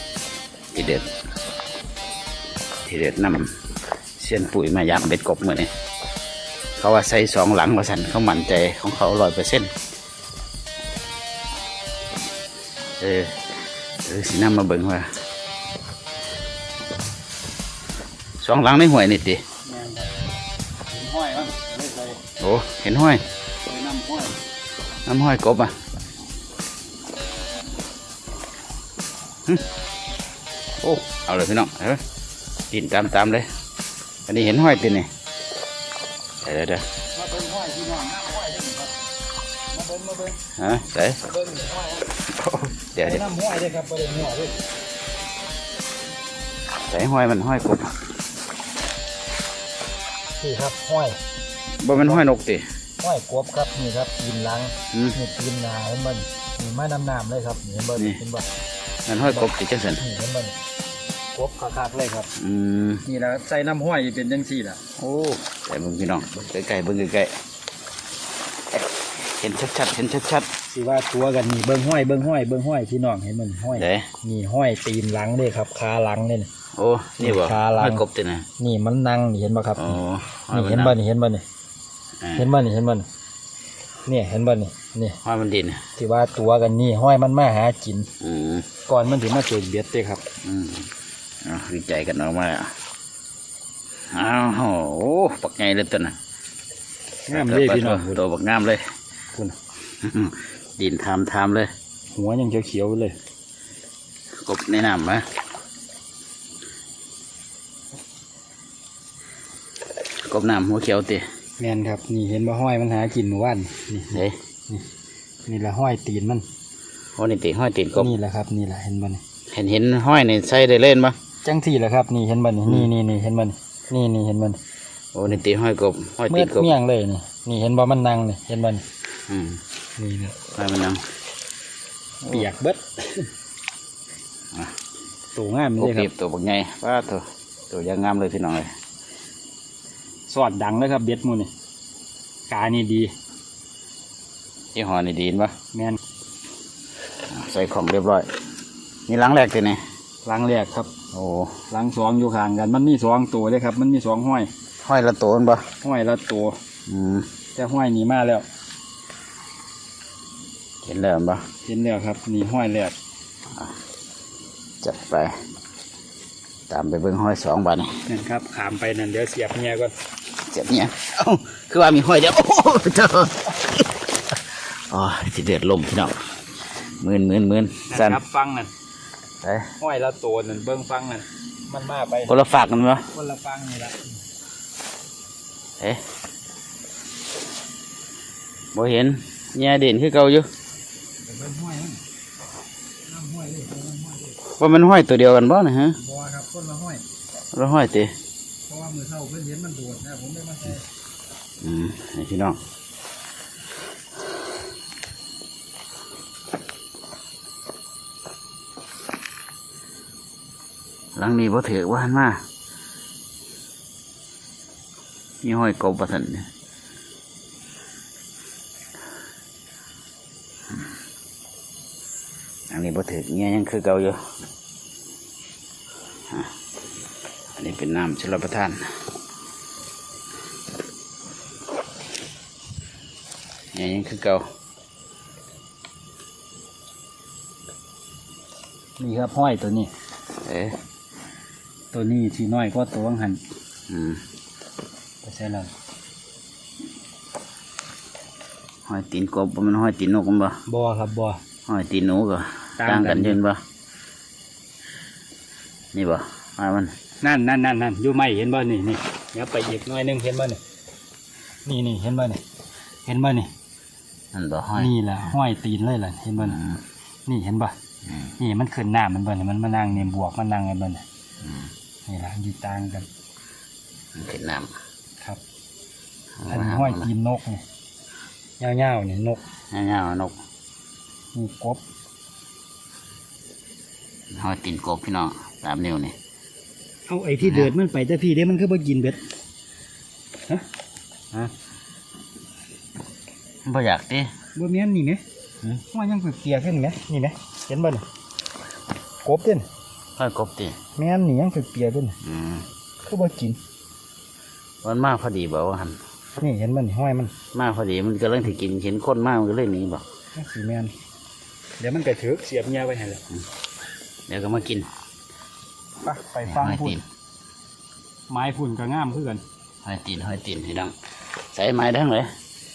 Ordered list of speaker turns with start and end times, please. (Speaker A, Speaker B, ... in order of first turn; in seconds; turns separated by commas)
Speaker A: 0.7-1.1, Speaker A: 2.8-3.5, Speaker A: 4.2-5.7, Speaker A: 6.8-9.7, Speaker A: 13.0-13.4, Speaker A: 14.0-15.1, Speaker A: 18.4-19.4, Speaker B: 19.6-20.1, Speaker B: 20.9-22.2, Speaker A: 22.4-23.2, Speaker B: 23.7-24.3, Speaker A: 25.1-25.7, Speaker A: 30.8-32.0, Speaker A: 32.7-33.5, Speaker A: 34.3-35.1, Speaker A: 36.4-36.8, Speaker B: 37.1-38.9, Speaker B: 39.7-40.4, Speaker A: 40.5-41.2, Speaker B: 41.3-44.6, Speaker A: 42.9-43.2, Speaker A: 46.9-47.9, Speaker B: 50.4-51.2, Speaker A: 51.8-52.6, Speaker B: 51.9-52.3, Speaker B: 53.0-58.5, Speaker A: 54.9-55.2, Speaker A: 59.1-60.0, Speaker B: 59.2-60.5, Speaker B: 61.3-62.3, Speaker A: 62.4-63.0, Speaker B: 63.0-64.9, Speaker A: 65.0-67.3, Speaker A: 68.7-70.5, Speaker B: 70.7-76.5, Speaker A: 73.7-74.1, Speaker A: 76.7-78.5, Speaker B: 77.2-78.0, Speaker B: 78.6-80.0, Speaker A: 79.8-81.0, Speaker B: 80.5-81.4, Speaker A: 82.2-82.5, Speaker B: 82.3-83.0, Speaker B: 84.0-85.2, Speaker A: 85.2-85.8, Speaker B: 86.0-88.1, Speaker A: 88.2-88.7, Speaker B: 88.9-90.2, Speaker A: 90.4-90.9, Speaker A: 91.4-92.7, Speaker A: 94.1-96.2, Speaker B: 97.3-98.2, Speaker A: 97.3-98.9, Speaker A: 100.0-101.7, Speaker B: 102.1-103.2, Speaker A: 104.4-105.3, Speaker A: 110.2-111.2, Speaker B: 111.6-114.8, Speaker A: 114.1-114.4, Speaker B: 115.5-116.4, Speaker A: 117.2-118.1, Speaker B: 117.9-119.2, Speaker A: 119.5-121.2, Speaker B: 121.4-124.6, Speaker A: 125.1-126.7, Speaker B: 126.3-128.8, Speaker A: 129.3-129.6, Speaker B: 130.0-130.4, Speaker A: 130.5-131.0, Speaker B: 132.2-133.3, Speaker B: 135.3-136.1, Speaker A: 135.8-138.7, Speaker B: 140.3-141.5, Speaker B: 142.5-143.1, Speaker A: 144.7-145.5, Speaker B: 145.7-146.0, Speaker A: 147.3-148.3, Speaker A: 149.1-149.8, Speaker B: 150.2-150.9, Speaker A: 151.1-151.6, Speaker B: 151.7-154.5, Speaker A: 154.8-155.7, Speaker B: 155.8-156.6, Speaker A: 156.9-157.3, Speaker B: 157.6-158.4, Speaker A: 160.8-161.4, Speaker B: 161.6-162.9, Speaker A: 164.8-165.4, Speaker A: 166.7-168.0, Speaker B: 168.1-169.9, Speaker A: 170.4-176.2, Speaker A: 176.8-178.2, Speaker B: 177.9-178.7, Speaker A: 179.4-179.7, Speaker B: 179.8-182.4, Speaker A: 182.3-183.1, Speaker B: 183.1-184.1, Speaker A: 188.7-190.5, Speaker B: 191.2-192.0, Speaker B: 193.1-194.4, Speaker A: 194.6-196.0, Speaker B: 196.0-197.0, Speaker A: 197.5-198.1, Speaker B: 198.7-200.8, Speaker A: 201.6-202.6, Speaker A: 211.2-212.4, Speaker A: 215.4-216.5, Speaker A: 222.7-224.2, Speaker A: 227.6-228.9, Speaker A: 233.7-234.4, Speaker B: 239.0-239.9, Speaker A: 240.4-240.8, Speaker B: 241.9-243.4, Speaker A: 243.9-244.2, Speaker B: 245.2-245.7, Speaker A: 248.8-250.6, Speaker B: 250.7-251.4, Speaker A: 251.7-253.6, Speaker B: 252.8-253.4, Speaker A: 255.9-256.9, Speaker B: 257.2-260.6, Speaker B: 261.6-262.4, Speaker B: 263.0-263.5, Speaker A: 264.3-264.9, Speaker B: 264.8-266.6, Speaker A: 266.4-266.8, Speaker B: 267.3-267.7, Speaker B: 268.4-271.0, Speaker A: 271.4-271.7, Speaker B: 272.1-273.1, Speaker A: 274.1-274.7, Speaker A: 276.4-277.1, Speaker B: 276.5-277.6, Speaker B: 278.6-279.4, Speaker A: 279.7-280.3, Speaker B: 281.3-281.8, Speaker A: 284.3-286.1, Speaker B: 287.1-289.2, Speaker A: 287.4-287.7, Speaker A: 293.6-294.3, Speaker B: 294.5-295.2, Speaker B: 295.9-298.0, Speaker B: 299.2-299.6, Speaker A: 300.2-300.8, Speaker B: 300.9-302.1, Speaker A: 302.2-302.7, Speaker B: 303.0-303.6, Speaker A: 304.8-306.0, Speaker B: 306.4-307.3, Speaker A: 307.5-310.0, Speaker B: 310.3-310.9, Speaker B: 311.8-313.2, Speaker A: 314.3-314.9, Speaker B: 316.0-317.0, Speaker A: 316.4-317.0, Speaker B: 318.3-319.4, Speaker A: 319.8-320.9, Speaker A: 321.5-322.3